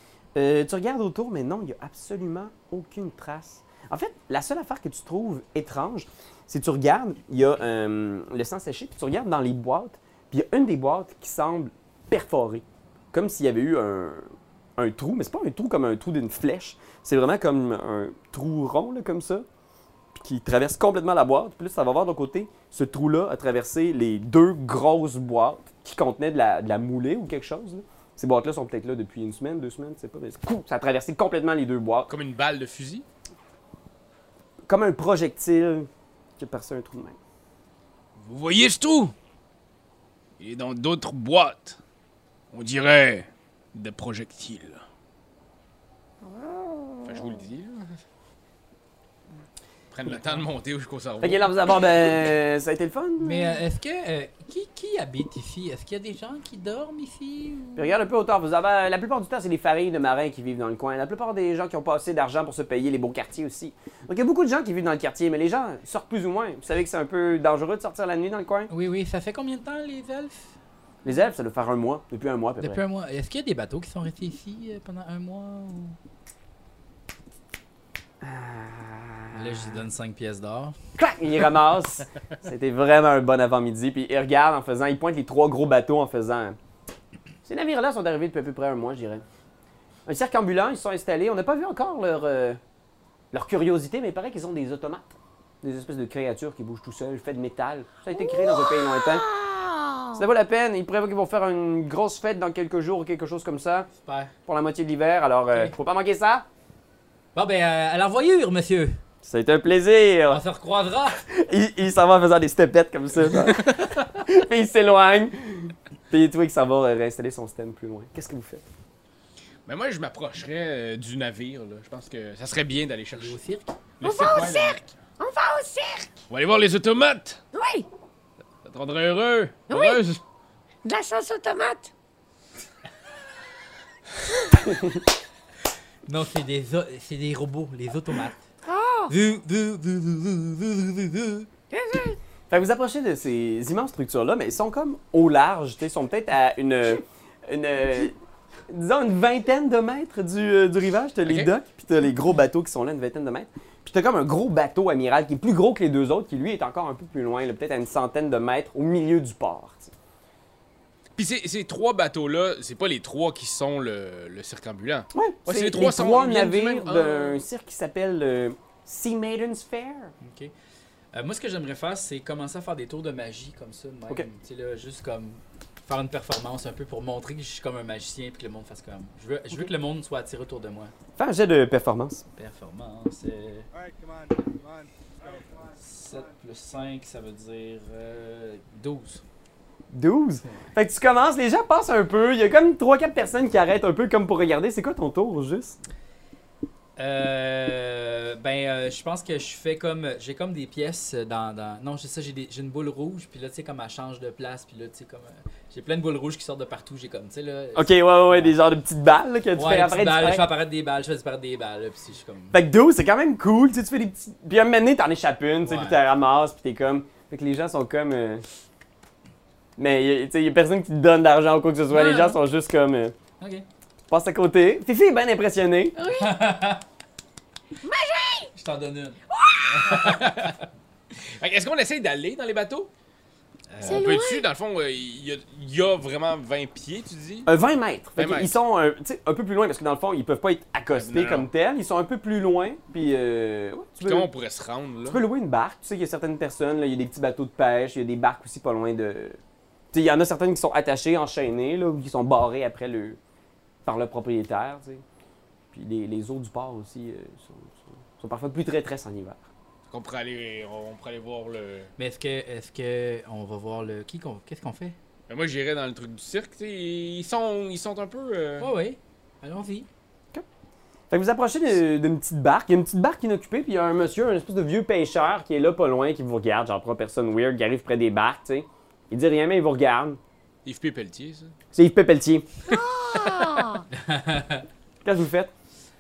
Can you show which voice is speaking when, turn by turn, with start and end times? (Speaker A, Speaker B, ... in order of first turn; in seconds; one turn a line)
Speaker A: 0.3-19.5
Speaker A: 20.1-32.1
Speaker B: 32.1-33.1
Speaker A: 34.7-37.2
Speaker B: 38.2-39.1
Speaker B: 40.4-41.8
Speaker B: 42.5-44.8
Speaker B: 47.0-48.0
Speaker B: 49.9-51.5
Speaker A: 51.2-53.6
Speaker C: 53.2-58.0
Speaker A: 57.8-68.7
Speaker C: 68.7-70.5
Speaker A: 71.0-72.8
Speaker C: 72.6-76.0
Speaker A: 78.2-79.8
Speaker C: 79.3-80.8
Speaker A: 81.0-86.6
Speaker A: 87.5-89.2
Speaker A: 90.1-92.6
Speaker A: 93.3-99.3
Speaker D: 98.1-100.2
Speaker A: 100.2-103.9
Speaker C: 104.0-104.3
Speaker A: 104.5-106.5
Speaker C: 107.3-109.0
Speaker A: 109.2-110.4
Speaker C: 110.3-111.2
Speaker A: 111.3-118.6
Speaker B: 119.7-123.4
Speaker C: 123.1-123.8
Speaker B: 124.0-124.8
Speaker D: 124.0-126.2
Speaker B: 126.3-127.4
Speaker D: 127.5-127.9
Speaker B: 128.6-130.2
Speaker D: 129.7-130.0
Speaker D: 130.8-131.9
Speaker C: 136.1-138.4
Speaker D: 138.7-139.1
Speaker C: 139.1-141.5
Speaker D: 141.7-142.2
Speaker A: 142.5-148.2
Speaker A: 148.7-159.9
Speaker B: 151.3-151.5
Speaker B: 161.2-167.4
Speaker A: 165.1-170.1
Speaker C: 170.2-170.5
Speaker C: 171.1-180.9
Speaker A: 181.2-182.2
Speaker C: 182.4-183.7
Speaker C: 185.6-189.2
Speaker A: 189.9-195.8
Speaker C: 197.0-208.6
Speaker A: 207.8-210.4
Speaker C: 209.6-212.6
Speaker A: 212.5-218.4
Speaker C: 215.7-216.0
Speaker A: 219.8-223.2
Speaker C: 221.9-222.4
Speaker C: 223.4-223.7
Speaker A: 224.1-225.9
Speaker D: 226.0-226.3
Speaker C: 226.1-226.8
Speaker D: 227.8-228.5
Speaker C: 228.6-229.2
Speaker D: 229.3-229.8
Speaker C: 229.7-230.5
Speaker B: 229.9-230.6
Speaker B: 231.2-232.9
Speaker C: 233.7-234.1
Speaker D: 233.8-234.4
Speaker B: 233.8-237.5
Speaker A: 237.5-244.3
Speaker B: 238.2-238.6
Speaker B: 240.9-241.5
Speaker B: 244.0-245.2
Speaker A: 245.1-249.4
Speaker A: 249.9-253.2
Speaker A: 253.9-255.0
Speaker A: 255.7-259.4
Speaker B: 259.9-261.9
Speaker C: 262.0-265.0
Speaker B: 265.3-268.7
Speaker C: 268.6-269.9
Speaker A: 271.1-280.2
Speaker B: 280.6-281.5
Speaker A: 281.7-282.5
Speaker D: 282.7-283.9
Speaker B: 283.2-283.5
Speaker C: 284.0-284.6
Speaker A: 285.0-285.5